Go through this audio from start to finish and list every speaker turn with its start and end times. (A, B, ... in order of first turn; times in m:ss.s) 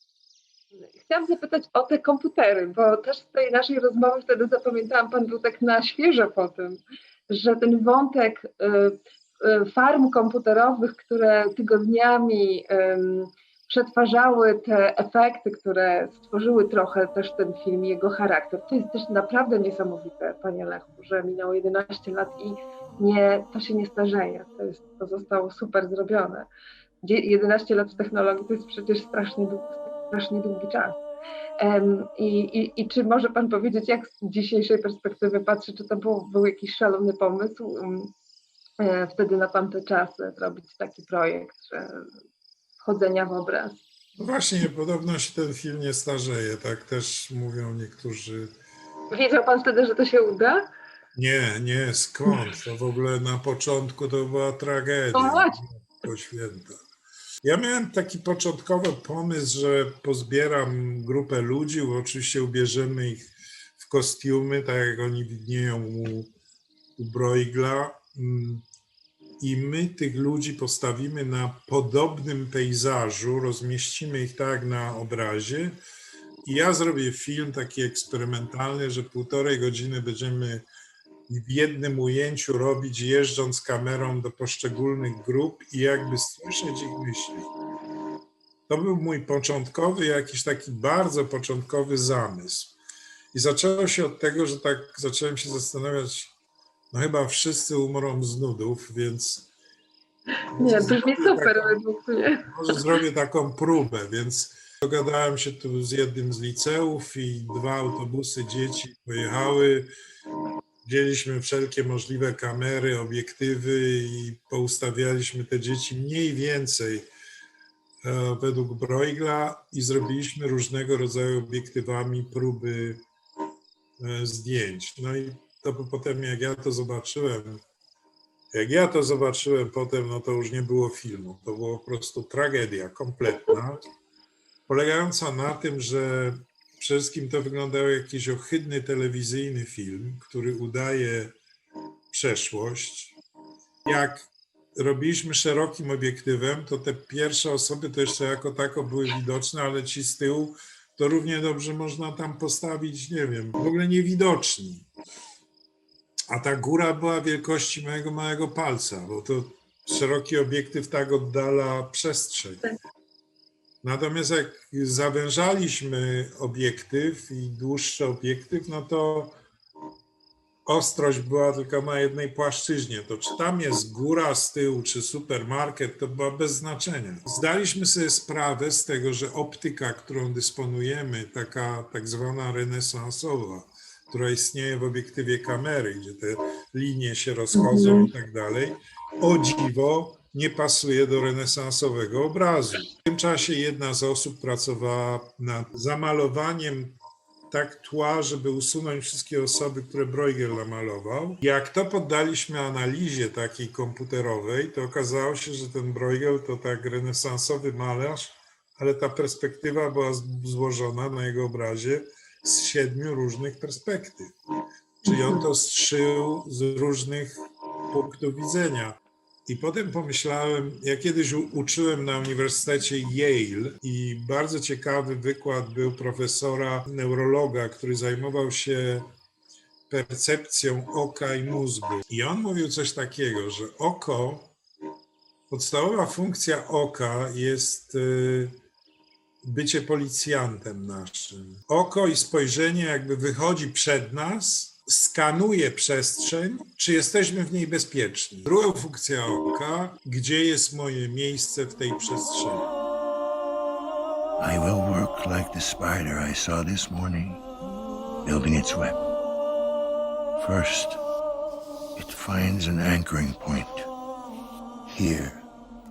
0:00.8-0:26.5 A
0:27.0-0:31.0 A
0:31.6-0:38.1 A
0:38.8-0:42.1 A
0:42.8-0:43.8 A
0:44.2-0:48.5 B
0:49.1-0:50.6 A
0:51.1-0:56.8 B
0:55.1-0:55.6 A
0:57.4-1:06.3 B
1:07.0-1:08.6 B
1:09.4-1:15.7 B
1:16.4-1:20.6 B
1:21.3-1:27.5 B
1:28.7-1:32.7 B
1:33.3-1:36.3 B
1:36.9-1:39.5 B
1:40.5-1:41.8 B
1:40.6-1:42.8 A
1:42.4-1:49.9 B
1:50.8-1:57.0 B
1:58.0-2:03.0 B
2:04.0-2:07.6 B
2:08.5-2:13.8 B
2:14.7-2:21.3 B
2:22.1-2:23.1 B
2:23.8-2:34.8 B
2:36.3-2:42.6 B
2:43.8-2:49.3 B
2:50.6-3:17.0 B
3:07.5-3:08.1 A
3:17.5-3:34.3 B
3:35.0-3:37.3 B
3:35.0-3:35.4 A
3:37.9-3:49.0 B
3:49.9-3:54.5 B
3:55.5-3:58.5 B
3:59.4-4:12.7 B
4:14.4-4:17.4 C
4:18.2-4:19.0 C
4:20.4-4:21.0 C
4:22.0-4:23.9 C
4:24.9-4:25.4 C